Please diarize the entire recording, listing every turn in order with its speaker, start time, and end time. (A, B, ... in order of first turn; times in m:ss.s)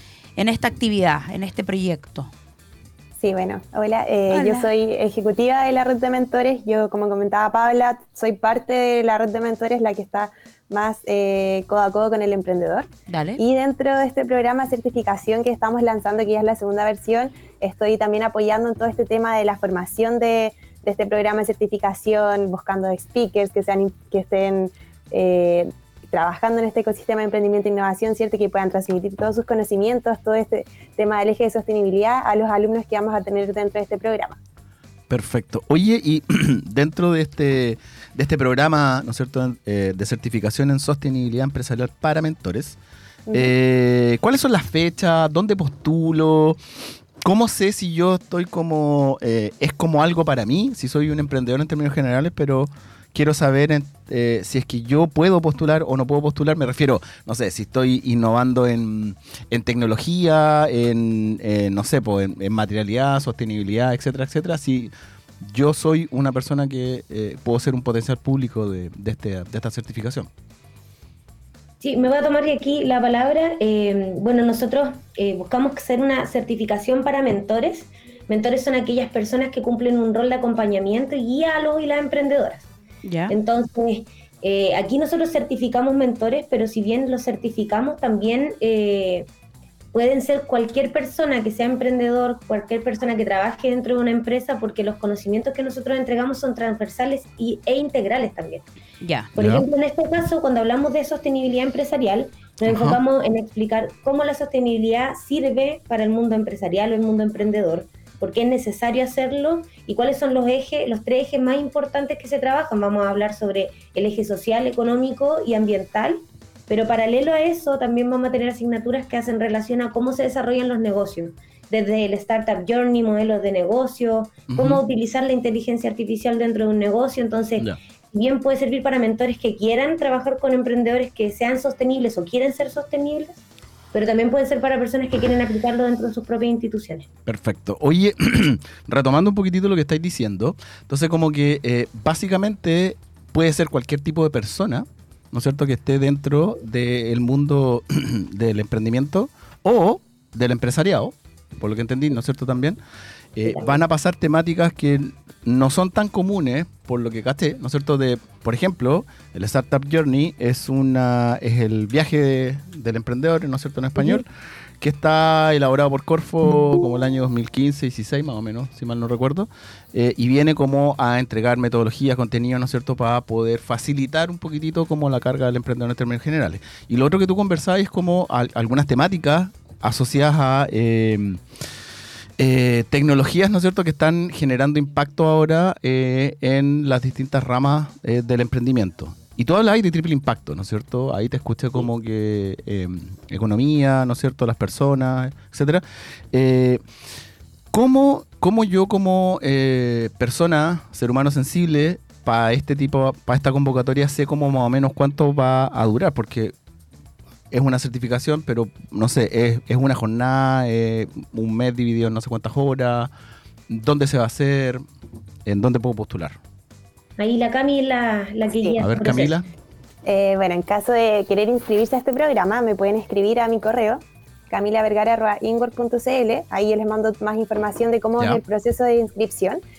0:00.4-0:02.3 A
0:03.2-0:34.4 B
0:04.3-0:04.7 A
0:13.1-0:13.4 A
0:35.1-0:42.8 C
0:43.3-0:46.6 C
0:47.2-1:10.3 C
1:11.8-1:22.7 D
1:23.0-1:23.4 A
1:23.3-1:29.3 D
1:29.9-1:38.7 D
1:39.0-1:39.3 A
1:39.4-2:17.1 D
1:39.4-1:39.7 C
1:42.6-1:43.0 C
2:04.5-2:04.8 C
2:17.3-2:32.8 C
2:33.4-2:44.3 C
2:44.8-3:01.4 C
3:02.4-3:16.8 C
3:17.7-3:26.5 C
3:27.5-3:33.1 C
3:33.7-3:34.8 C
3:35.5-3:36.4 C
3:37.2-3:39.4 D
3:38.8-3:39.5 C
3:40.1-3:49.6 B
3:48.2-3:48.4 C